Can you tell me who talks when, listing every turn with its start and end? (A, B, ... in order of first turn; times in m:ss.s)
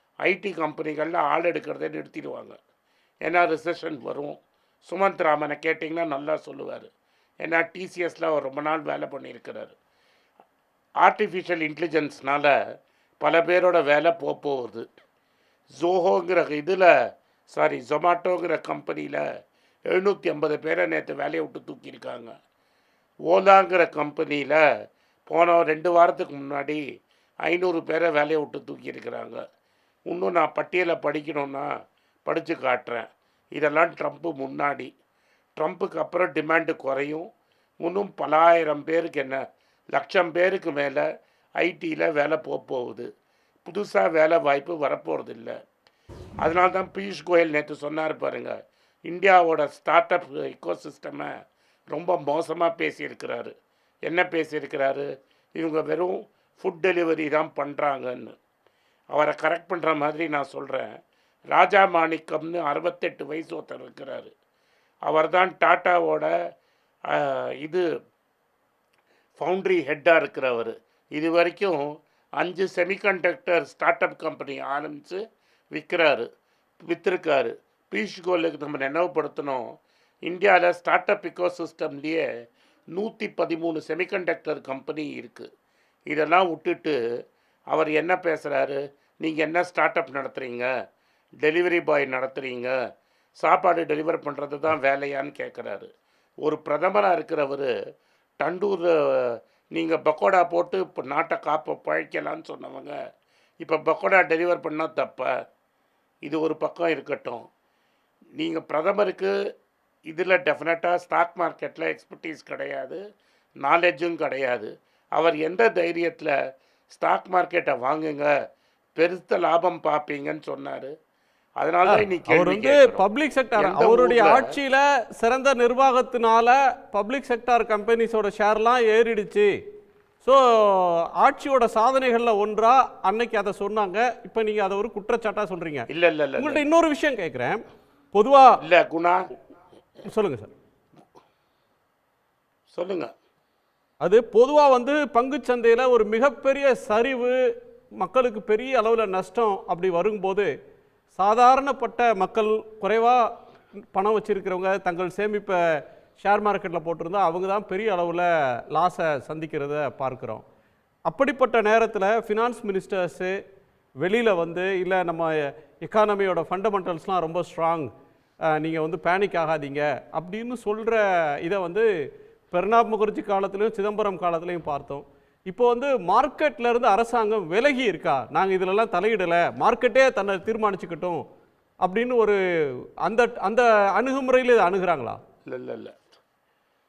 0:00.2-0:02.6 A
0:03.2-0:06.9 A
0:07.4-0:09.8 A
0:11.0-0:12.5 A
0:13.2-0:14.8 A
0:15.8-0:16.9 A
0:17.5-0:19.2 A
0:19.9-0:22.3 A
0:23.3-0:24.6 A
0:25.3-0:26.8 A
0:27.4-0:29.4 A
0:30.1-0:31.7 A
0:32.2-0:34.9 A
0:35.6-0:37.2 A
0:37.8-0:39.4 A
0:39.9-0:41.0 A
0:41.6-0:43.1 A
0:43.6-0:45.5 A
0:46.4-0:48.6 A
0:49.1-0:51.3 A
0:51.9-0:53.5 A
0:54.1-0:58.3 A
0:59.1-1:01.0 A
1:01.5-1:04.3 A
1:05.1-1:06.3 A
1:07.1-1:07.8 A
1:09.4-1:11.8 A
1:12.4-1:15.2 A
1:15.7-1:16.3 A
1:16.9-1:19.6 A
1:20.3-1:22.2 A
1:22.9-1:25.5 A
1:26.1-1:27.0 A
1:27.7-1:30.7 A
1:31.4-1:32.7 A
1:33.4-1:35.9 A
1:36.4-1:37.7 A
1:38.4-1:42.9 A
1:43.6-1:45.3 A
1:46.3-1:47.4 A
1:48.4-1:49.3 A
1:50.1-1:53.0 A
1:53.6-1:56.3 A
1:56.9-1:58.3 A
1:59.0-2:00.9 A
2:01.6-2:03.0 A
2:01.9-2:09.5 B
2:03.6-2:04.6 A
2:10.2-2:15.9 B
2:15.9-2:16.6 A
2:16.4-2:18.5 B
2:18.6-2:19.2 A
2:20.0-2:20.5 B
2:22.7-2:23.1 A
2:24.0-2:27.3 B
2:28.0-2:30.5 B
2:31.1-2:33.2 B
2:33.9-2:35.6 B
2:36.2-2:40.4 B
2:41.1-2:43.3 B
2:44.0-2:47.9 B
2:48.6-2:51.8 B
2:52.5-3:01.2 B
3:01.8-3:02.4 B
3:03.0-3:05.2 B
3:05.5-3:05.9 A